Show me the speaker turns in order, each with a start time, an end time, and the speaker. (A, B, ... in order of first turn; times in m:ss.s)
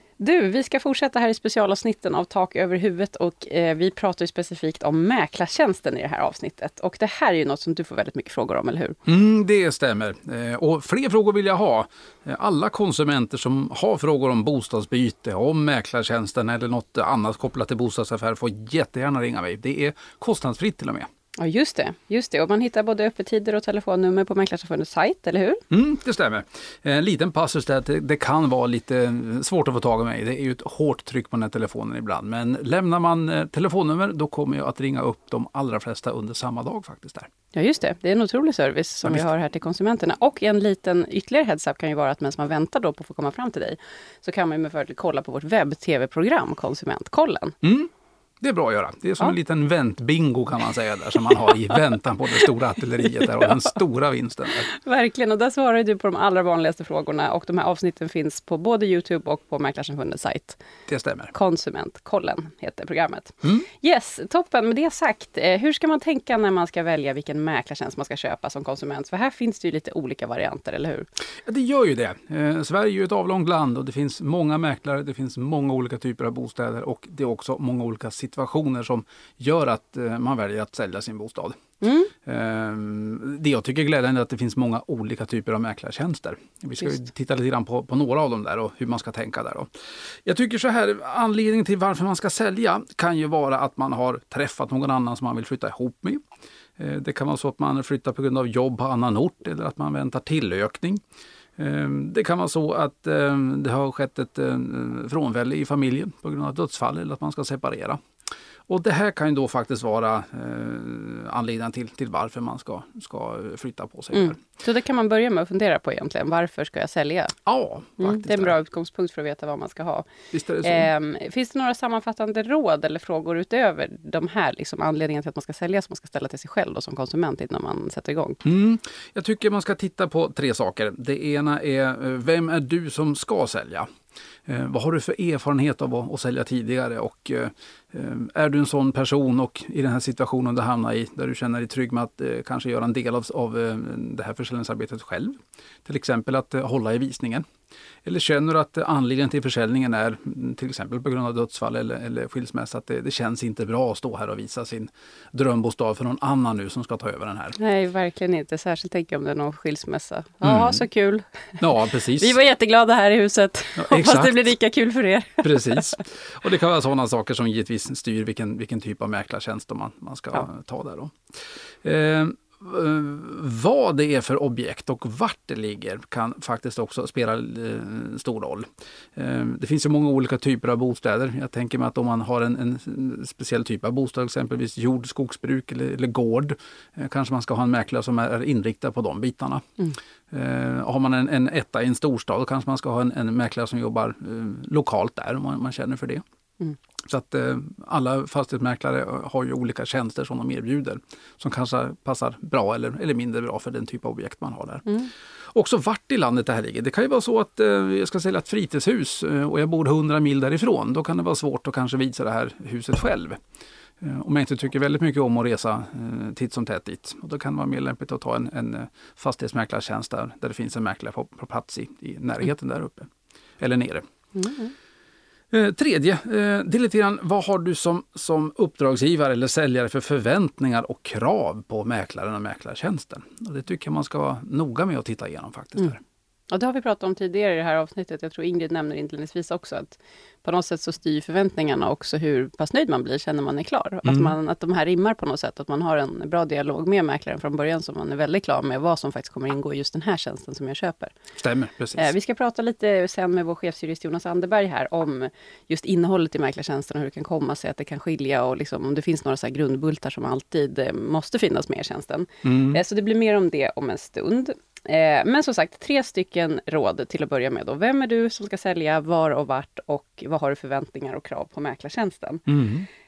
0:00.2-0:09.0 A
0:09.1-0:21.1 B
0:21.4-0:25.6 A
0:25.7-0:37.3 B
0:37.5-0:47.5 A
0:47.6-0:47.9 B
0:48.4-0:54.7 B
0:54.7-1:00.6 A
1:00.9-1:01.3 B
1:01.3-1:11.1 A
1:11.5-1:21.6 B
1:21.8-1:22.1 A
1:22.2-1:29.7 B
1:30.2-1:36.2 B
1:36.8-1:41.0 B
1:41.6-1:48.0 B
1:48.7-1:54.4 B
1:54.1-1:57.4 A
1:57.5-1:58.6 B
1:58.0-2:00.1 A
2:00.3-2:00.9 B
2:00.6-2:08.4 A
2:08.4-2:13.9 B
2:14.5-2:27.4 B
2:28.0-2:37.6 B
2:37.6-2:45.9 A
2:40.4-2:40.8 B
2:41.6-2:42.4 B
2:43.8-2:44.5 B
2:45.4-2:51.2 B
2:51.8-3:09.6 B
3:10.3-3:16.2 B
3:17.1-3:25.0 B
3:25.5-3:33.4 B
3:34.0-3:44.0 B
3:44.4-3:44.7 A
3:45.5-3:56.0 B
3:56.5-4:11.2 A
4:04.0-4:04.3 B
4:11.4-4:12.1 B
4:12.0-4:32.4 A
4:22.4-4:22.8 B
4:32.5-4:32.9 B